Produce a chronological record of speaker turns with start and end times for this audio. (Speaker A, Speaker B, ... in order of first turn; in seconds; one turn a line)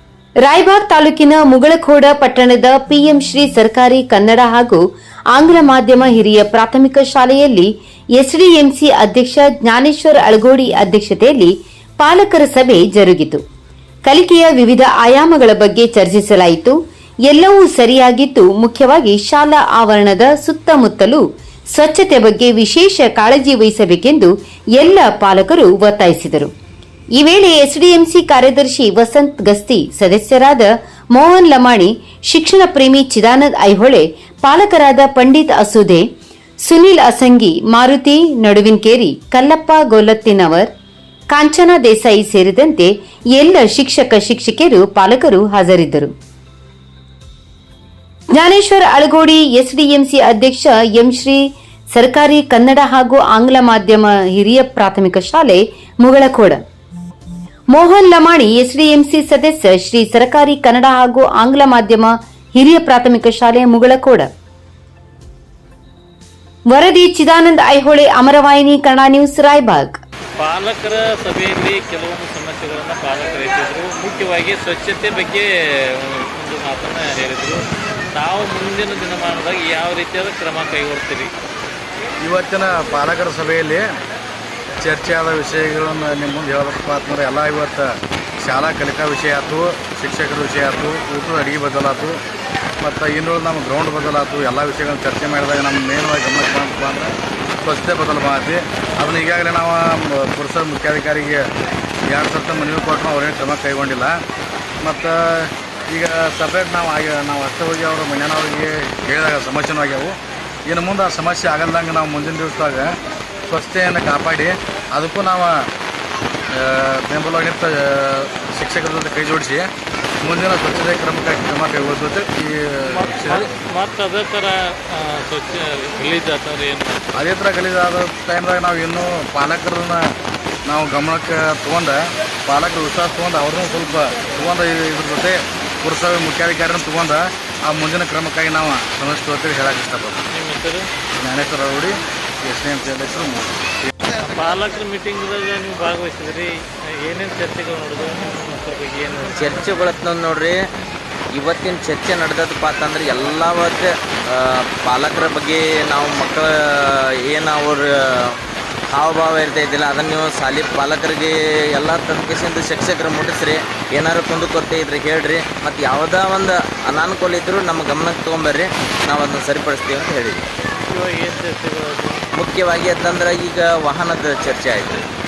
Speaker A: 0.4-13.4
Speaker A: 14.0-16.8
Speaker A: 17.3-26.5
Speaker A: 27.2-36.1
Speaker A: 36.6-40.7
Speaker A: 41.3-46.1
Speaker A: 48.3-56.6
Speaker A: 57.7-64.3
Speaker A: 66.7-70.0
Speaker B: 70.4-81.3
Speaker C: 82.2-83.8
Speaker C: 84.8-92.2
Speaker C: 92.8-101.4
Speaker C: 102.1-104.2
Speaker C: 104.8-110.2
Speaker C: 110.7-112.9
Speaker C: 113.5-115.7
Speaker C: 116.5-119.7
Speaker C: 120.2-123.5
Speaker B: 122.9-127.1
Speaker C: 127.2-130.1
Speaker C: 130.7-140.2
Speaker B: 140.3-140.9
Speaker C: 141.2-143.9
Speaker B: 144.2-149.6
Speaker D: 149.4-150.6
Speaker D: 151.3-158.4
Speaker D: 158.9-170.5
Speaker B: 170.8-172.2
Speaker D: 172.3-175.0